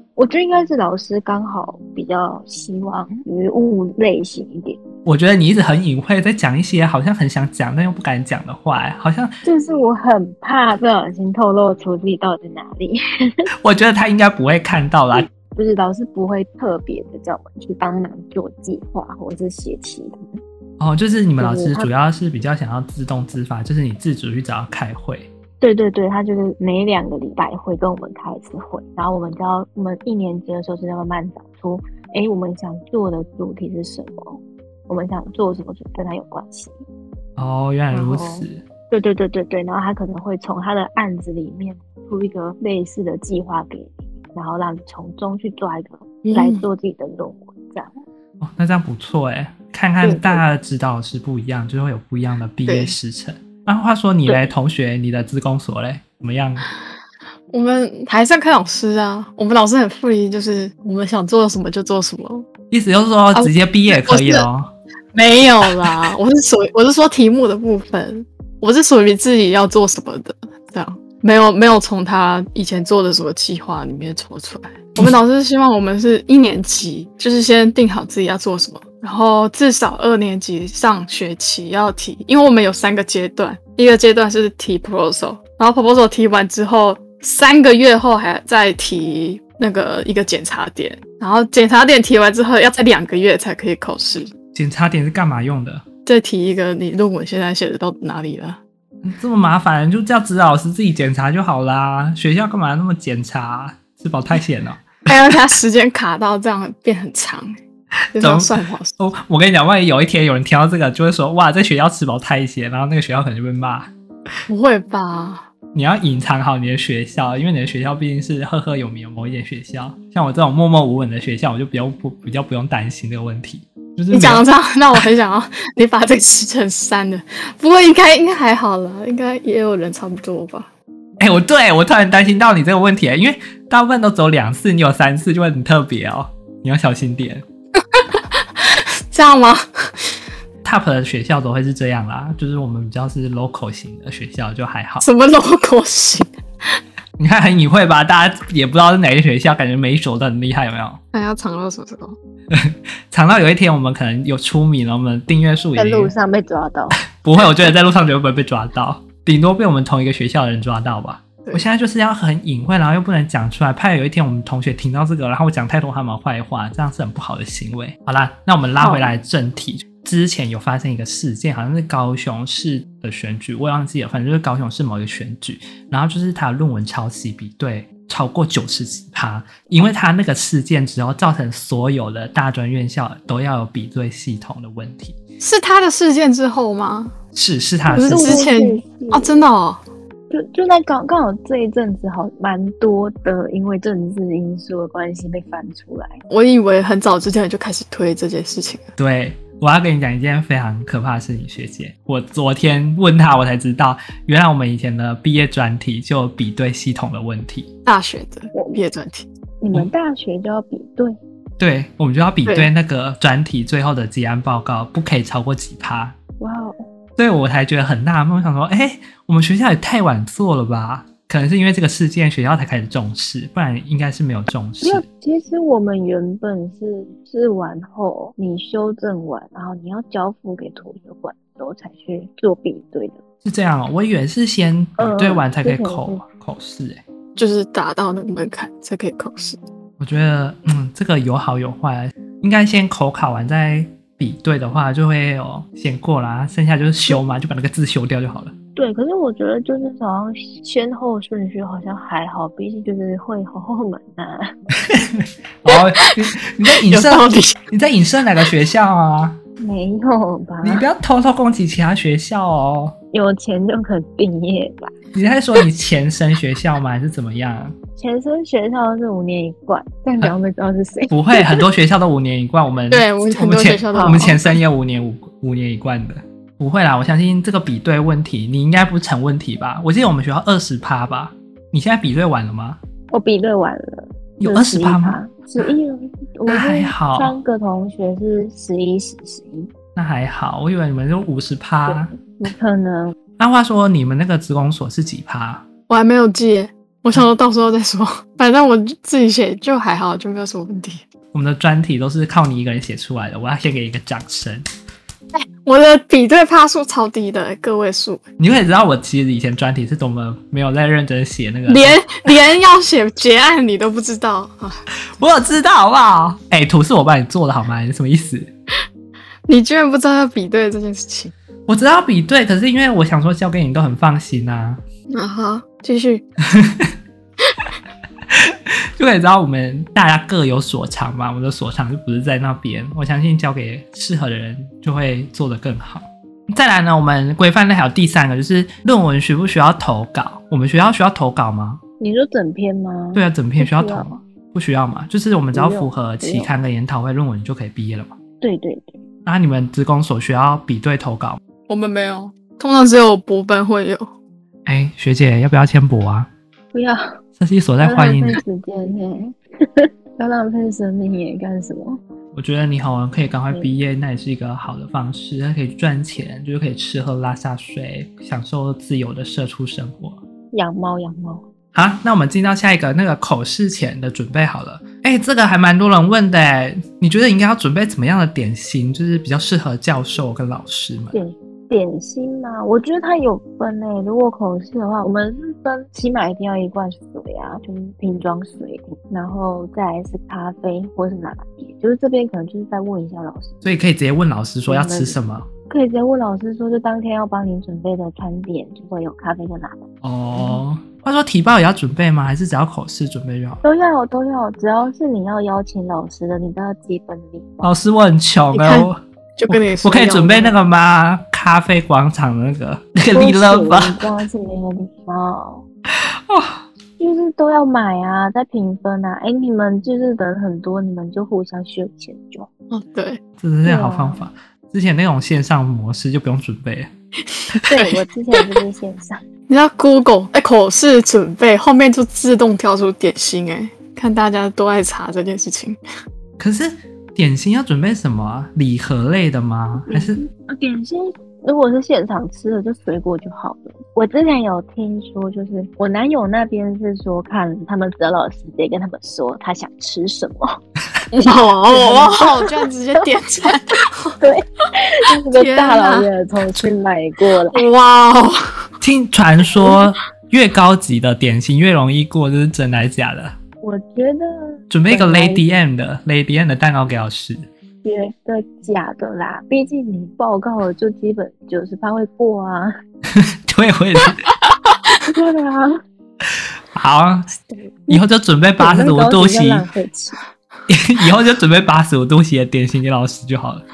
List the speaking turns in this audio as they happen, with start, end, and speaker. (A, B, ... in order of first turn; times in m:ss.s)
0:00.2-0:04.8 A
0:05.0-0:09.4 B
0:09.4-0:13.3 A
0:13.6-0:15.3 B
0:15.1-0:20.4 A
0:20.8-0:25.3 B
0:21.4-0:21.9 A
0:25.6-0:36.7 A
0:37.4-0:38.6 B
0:37.9-0:47.9 A
0:46.2-0:46.6 C
0:48.4-0:56.7 B
0:50.0-0:50.4 A
0:52.7-0:52.9 C
0:57.5-1:02.4 C
1:02.7-1:04.7 B
1:03.3-1:04.4 C
1:05.1-1:34.3 C
1:34.5-1:35.8 B
1:36.0-1:38.6 C
1:39.0-1:44.8 B
1:45.1-1:47.5 C
1:48.1-1:53.9 B
1:48.1-1:49.0 C
1:54.5-1:55.5 C
1:55.7-2:05.0 B
2:04.1-2:10.7 C
2:11.2-2:17.4 B
2:17.9-2:20.1 C
2:20.6-2:25.0 B
2:25.0-2:26.3 C
2:27.2-2:31.0 B
2:31.1-2:32.2 C
2:32.5-2:36.1 B
2:35.8-2:37.0 A
2:37.1-3:05.2 B
2:48.8-2:49.1 A
3:05.4-3:07.1 C
3:07.3-3:08.5 B
3:07.9-3:09.4 A
3:07.9-3:09.8 C
3:10.3-3:16.2 A
3:16.3-3:18.9 C
3:19.0-3:27.7 B
3:27.8-3:29.3 C
3:29.6-3:31.2 A
3:31.6-3:36.2 B
3:36.4-3:36.8 A
3:37.2-3:45.0 B
3:44.8-3:53.2 A
3:53.4-3:57.0 B
3:55.0-3:56.2 A
3:57.4-3:59.6 C
4:00.0-4:08.5 B
4:08.8-4:14.5 A
4:14.8-4:19.4 B
4:15.7-4:17.6 C
4:19.6-4:20.8 A
4:20.6-4:23.0 B
4:23.1-4:24.9 A
4:25.1-4:27.7 B
4:28.0-4:31.2 A
4:31.1-4:42.8 B
4:32.9-4:34.6 C
4:33.9-4:34.4 A
4:43.1-4:49.7 A
4:44.4-4:45.7 B
4:46.5-4:47.4 B
4:50.0-4:52.1 B
4:51.9-4:53.2 A
4:53.4-4:55.6 B
4:55.9-5:01.0 C
5:01.3-5:04.6 B
5:05.3-5:08.2 C
5:08.4-5:12.1 B
5:11.7-5:14.8 C
5:15.1-5:18.5 B
5:19.5-5:21.3 C
5:21.7-5:24.8 B
5:25.1-5:26.2 C
5:26.4-5:26.9 B
5:28.3-5:41.8 B
5:42.0-5:44.2 A
5:43.1-5:48.1 B
5:45.5-5:46.5 A
5:48.4-5:49.0 A
5:49.2-5:51.4 B
5:51.7-5:54.1 C
5:54.6-5:56.3 B
5:56.7-5:57.2 A
5:57.4-5:58.4 B
5:57.8-6:02.0 A
6:02.3-6:10.2 B
6:10.5-6:11.4 A
6:11.7-6:21.2 B
6:21.1-6:33.6 A
6:33.6-6:35.5 B
6:34.7-6:35.2 A
6:35.7-6:39.9 A
6:40.0-6:43.6 B
6:43.6-6:47.7 A
6:47.6-6:54.1 B
6:48.5-6:50.6 C
6:53.1-6:55.6 A
6:56.0-6:56.6 B
6:57.0-7:02.5 A
7:02.7-7:03.2 C
7:03.4-7:06.9 B
7:03.6-7:04.2 A
7:07.3-7:08.4 C
7:07.7-7:09.2 A
7:09.5-7:15.8 C
7:16.4-7:20.2 B
7:19.9-7:32.5 A
7:31.2-7:34.2 C
7:34.2-7:37.7 A
7:35.3-7:36.1 C
7:37.5-7:38.6 C
7:38.8-7:43.3 B
7:43.6-7:45.4 A
7:44.7-7:47.5 B
7:47.8-7:52.7 A
7:53.1-7:54.2 B
7:55.0-7:55.8 A
7:56.3-7:57.3 B
7:57.9-7:59.6 B
7:58.6-8:00.2 A
8:00.7-8:03.6 B